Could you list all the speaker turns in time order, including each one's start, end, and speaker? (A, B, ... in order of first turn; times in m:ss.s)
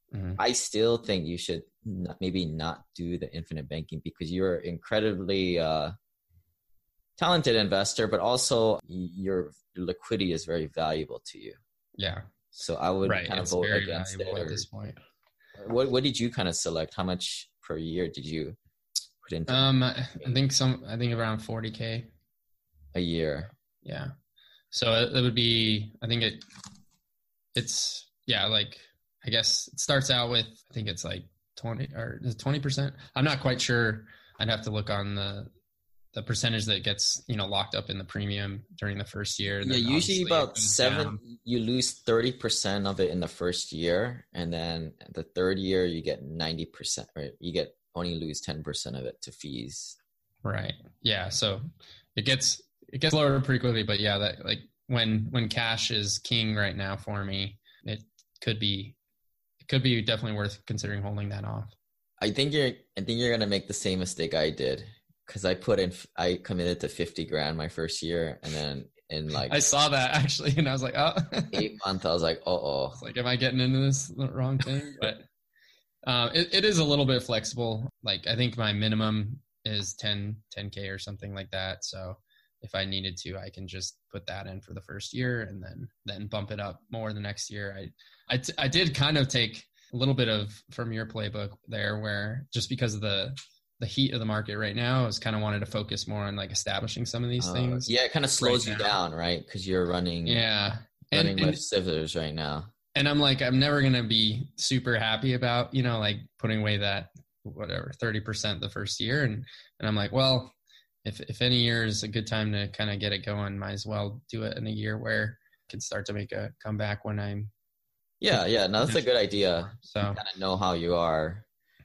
0:00.1-0:00.4 A
0:00.4-0:06.0 B
0:07.2-0:11.6 B
0:12.0-0:12.3 A
0:12.5-0:14.6 B
0:13.0-0:15.0 A
0:15.6-0:18.6 B
0:19.2-0:20.4 B
0:19.5-0:22.1 A
0:22.9-0:23.5 B
0:23.8-0:24.1 A
0:24.7-0:26.4 A
0:27.6-0:35.5 A
0:36.1-0:41.2 A
0:39.6-0:50.0 B
0:50.4-0:51.6 A
0:52.2-0:59.0 A
0:59.6-1:01.7 A
1:02.2-1:09.6 B
1:09.5-1:11.7 A
1:11.5-1:13.0 B
1:13.0-1:15.3 A
1:16.0-1:38.9 A
1:37.4-1:40.4 B
1:40.3-1:41.6 A
1:41.1-1:42.7 B
1:43.0-1:57.5 A
1:58.2-2:01.4 B
1:59.8-2:00.2 A